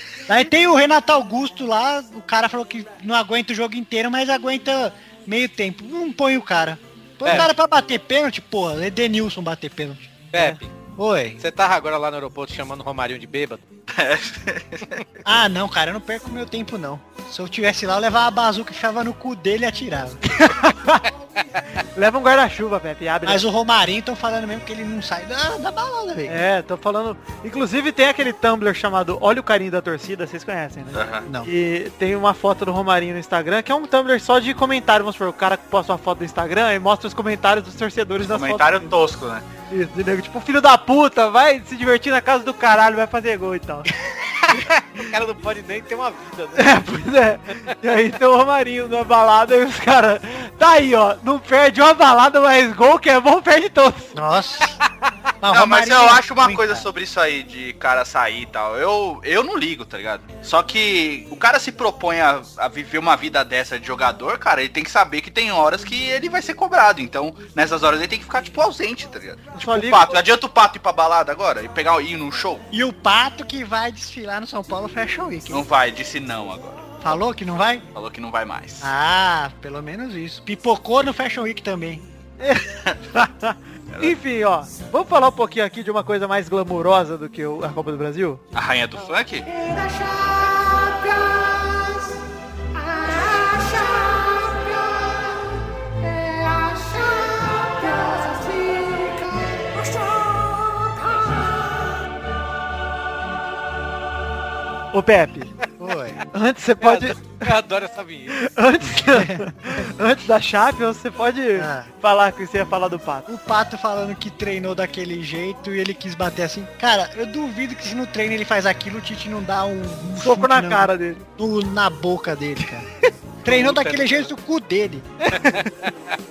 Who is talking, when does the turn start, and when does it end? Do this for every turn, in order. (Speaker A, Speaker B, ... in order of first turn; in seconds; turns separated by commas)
Speaker A: 0.3-10.3, Speaker B: 7.2-7.5, Speaker B: 10.3-10.7, Speaker A: 11.0-11.4, Speaker B: 11.4-13.6, Speaker C: 13.9-15.0, Speaker A: 15.2-20.2, Speaker D: 20.4-21.1, Speaker D: 21.9-23.4, Speaker A: 23.2-26.4, Speaker D: 26.3-38.9, Speaker C: 30.9-31.2, Speaker C: 38.3-39.4, Speaker D: 39.7-43.9, Speaker B: 45.0-46.7, Speaker D: 46.5-54.1, Speaker A: 54.1-54.8, Speaker A: 55.4-56.9, Speaker C: 55.5-72.7, Speaker D: 69.5-70.1, Speaker A: 72.7-75.6, Speaker C: 75.5-77.0, Speaker A: 77.0-77.8, Speaker C: 77.9-78.9, Speaker A: 78.8-82.0, Speaker D: 82.4-88.4, Speaker C: 88.5-89.5, Speaker D: 104.9-105.5, Speaker A: 105.8-106.2, Speaker D: 106.3-107.5, Speaker B: 106.8-108.4, Speaker D: 108.3-113.2, Speaker A: 109.1-109.4, Speaker A: 111.5-111.9, Speaker A: 113.3-122.9, Speaker D: 120.2-121.2, Speaker A: 123.4-125.1, Speaker B: 123.5-124.3, Speaker D: 125.2-125.7